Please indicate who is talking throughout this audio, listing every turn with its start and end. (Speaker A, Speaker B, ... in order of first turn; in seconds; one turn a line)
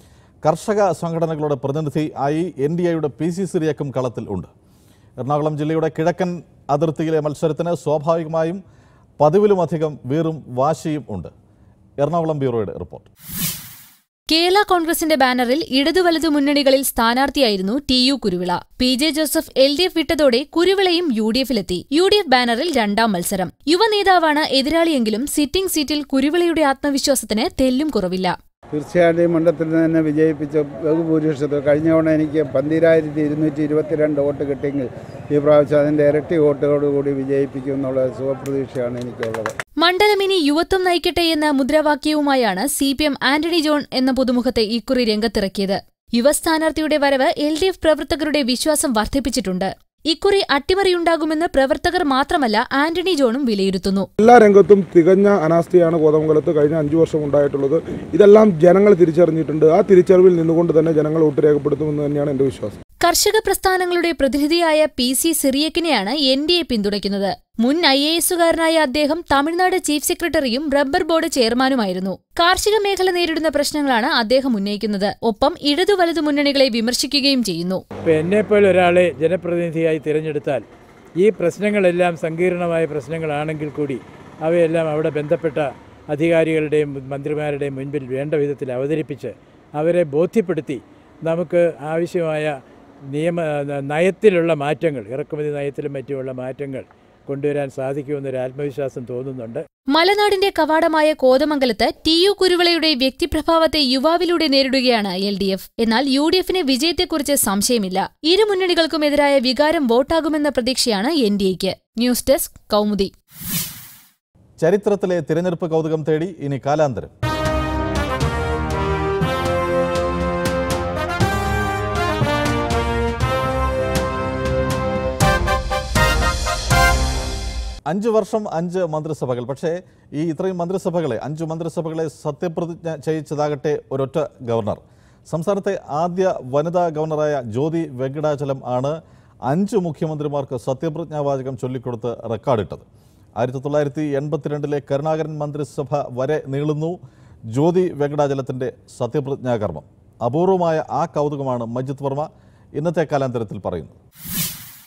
Speaker A: 0.4-4.5
Speaker A: 5.2-8.6
Speaker A: 9.2-11.3
Speaker A: 12.0-13.1
Speaker B: 14.3-28.3
Speaker C: 28.7-39.5
Speaker B: 39.8-54.1
Speaker D: 54.2-62.7
Speaker B: 63.0-77.8
Speaker E: 78.0-80.6
Speaker E: 81.2-92.5
Speaker E: 93.1-99.6
Speaker B: 99.9-113.1
Speaker A: 114.6-117.1
Speaker A: 127.9-138.9
Speaker A: 139.5-142.8
Speaker A: 143.4-147.0
Speaker A: 147.5-154.0